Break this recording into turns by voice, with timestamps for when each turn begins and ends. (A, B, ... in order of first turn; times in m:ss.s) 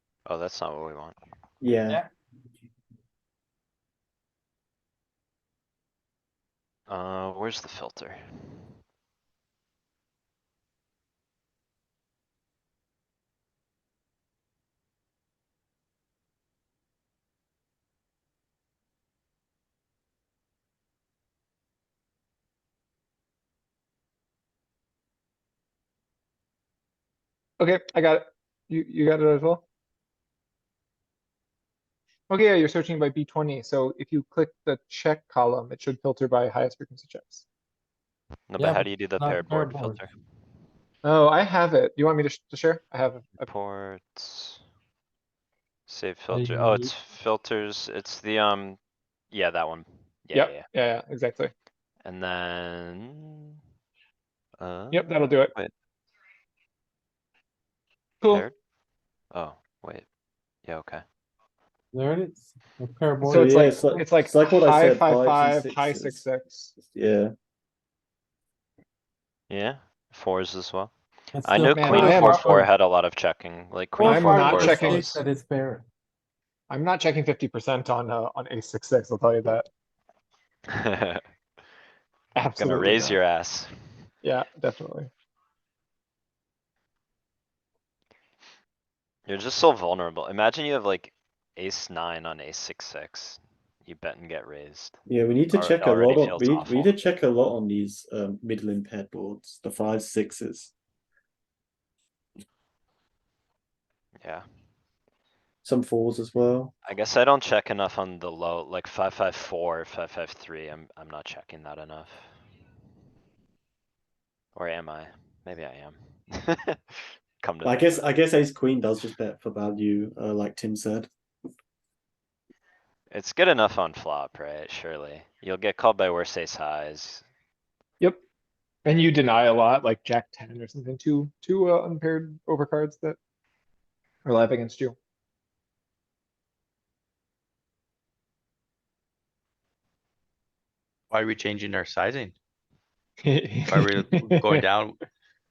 0:00.3-0:01.2 A
0:01.6-0:02.0 B
0:06.9-0:08.7 A
0:27.6-0:29.6 C
0:32.3-0:37.5 C
0:38.5-0:40.1 A
0:38.6-0:40.1 D
0:41.0-0:43.5 C
0:43.4-0:44.6 A
0:45.9-0:48.8 A
0:46.3-0:46.9 D
0:49.3-0:50.6 A
0:50.3-0:51.5 C
0:52.0-0:53.6 A
0:54.6-0:55.7 A
0:54.9-0:55.5 C
0:58.3-0:58.6 A
0:59.3-1:00.1 A
1:00.7-1:01.0 A
1:01.9-1:04.1 D
1:03.2-1:06.7 C
1:03.3-1:06.2 B
1:06.8-1:07.3 B
1:09.5-1:10.9 A
1:11.3-1:12.7 D
1:11.4-1:15.2 A
1:11.7-1:12.5 C
1:14.0-1:15.9 D
1:14.0-1:15.2 C
1:16.7-1:19.7 C
1:20.8-1:21.2 A
1:22.4-1:23.2 C
1:22.6-1:24.1 A
1:24.2-1:25.1 C
1:29.3-1:35.0 A
1:35.1-1:40.7 B
1:35.5-1:36.9 A
1:44.2-1:44.4 A
1:45.6-1:46.7 B
1:46.8-1:52.4 A
1:54.6-1:58.0 A
1:57.6-2:01.1 B
2:03.1-2:07.3 A
2:08.8-2:13.2 C
2:14.2-2:15.0 C
2:21.1-2:22.3 E
2:23.2-2:24.6 C
2:23.7-2:25.0 E